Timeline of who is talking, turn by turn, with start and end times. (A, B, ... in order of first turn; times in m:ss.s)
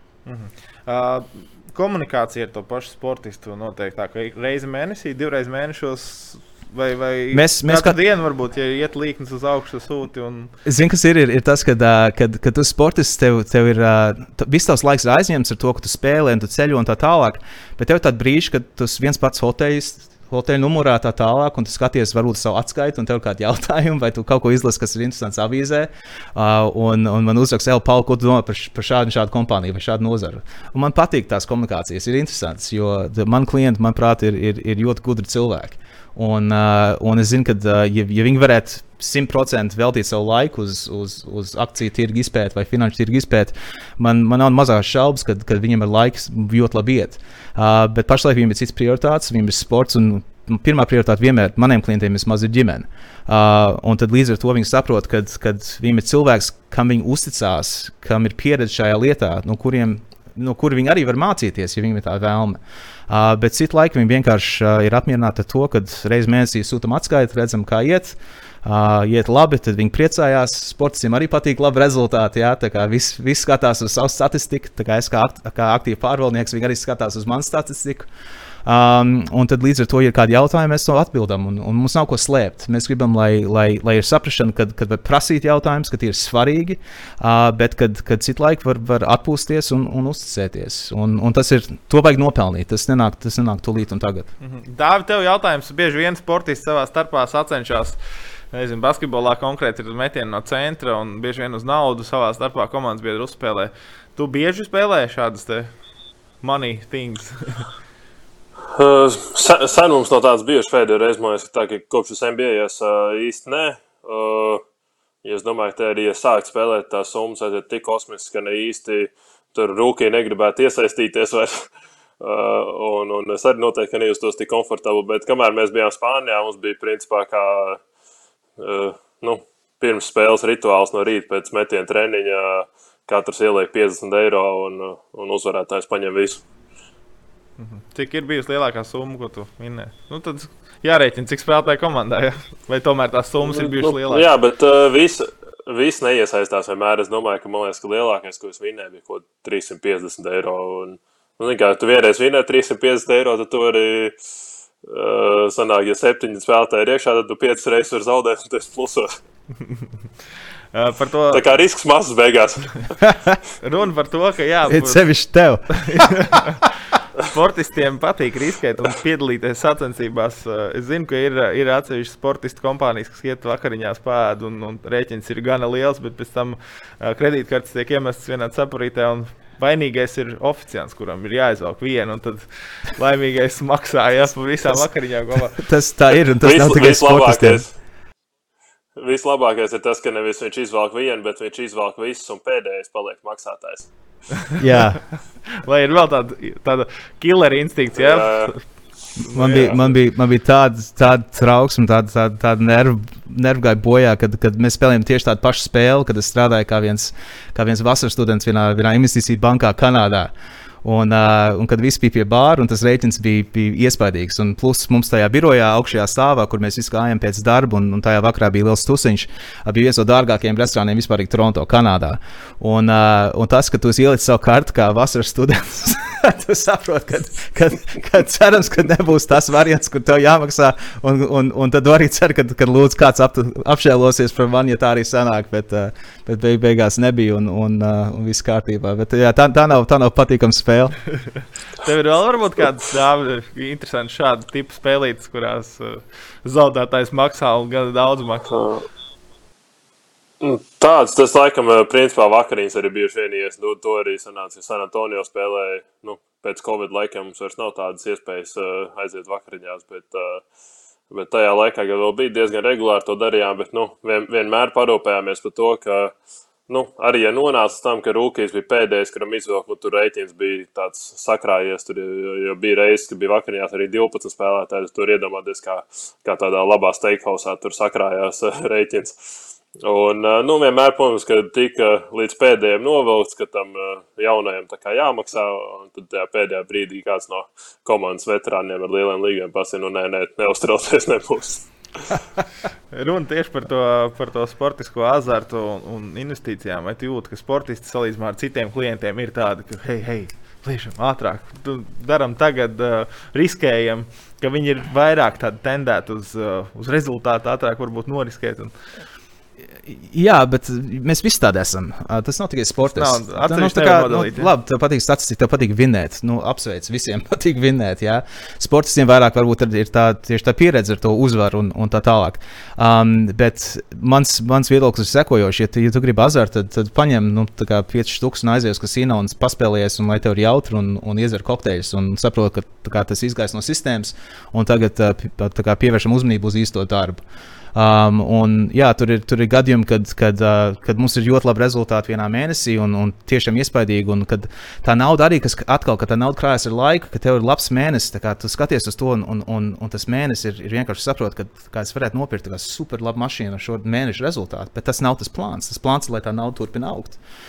0:00.3-0:10.5 A
0:07.3-0:08.0 B
0:10.6-1:02.6 B
1:03.1-1:18.1 B
1:18.6-1:34.3 B
1:34.4-1:38.0 A
1:38.5-1:45.7 A
1:46.4-1:47.6 A
1:48.7-1:54.6 C
1:55.2-2:01.7 C
2:02.2-2:07.8 C
2:08.6-2:16.4 C
2:17.6-2:24.2 A
2:23.4-2:34.2 C
2:34.8-2:39.1 C
2:40.7-2:41.4 A
2:41.3-2:43.0 C
2:43.1-2:43.4 B
2:43.6-2:45.0 A
2:44.7-2:46.4 B
2:45.7-3:05.6 A
3:05.5-3:07.6 B
3:06.4-3:07.7 C
3:09.0-3:13.9 C
3:14.6-3:15.0 B
3:15.6-3:18.6 A
3:18.0-3:18.6 C
3:19.2-3:19.8 A
3:19.3-3:30.3 B
3:30.8-4:01.0 B
4:01.8-4:08.6 A
4:08.5-4:08.8 C
4:10.4-4:20.4 C
4:21.1-4:26.1 C
4:26.7-4:39.2 C
4:39.8-4:52.2 C
4:52.9-5:08.7 A
5:09.9-5:37.2 B
5:12.9-5:14.5 A
5:37.7-5:57.2 B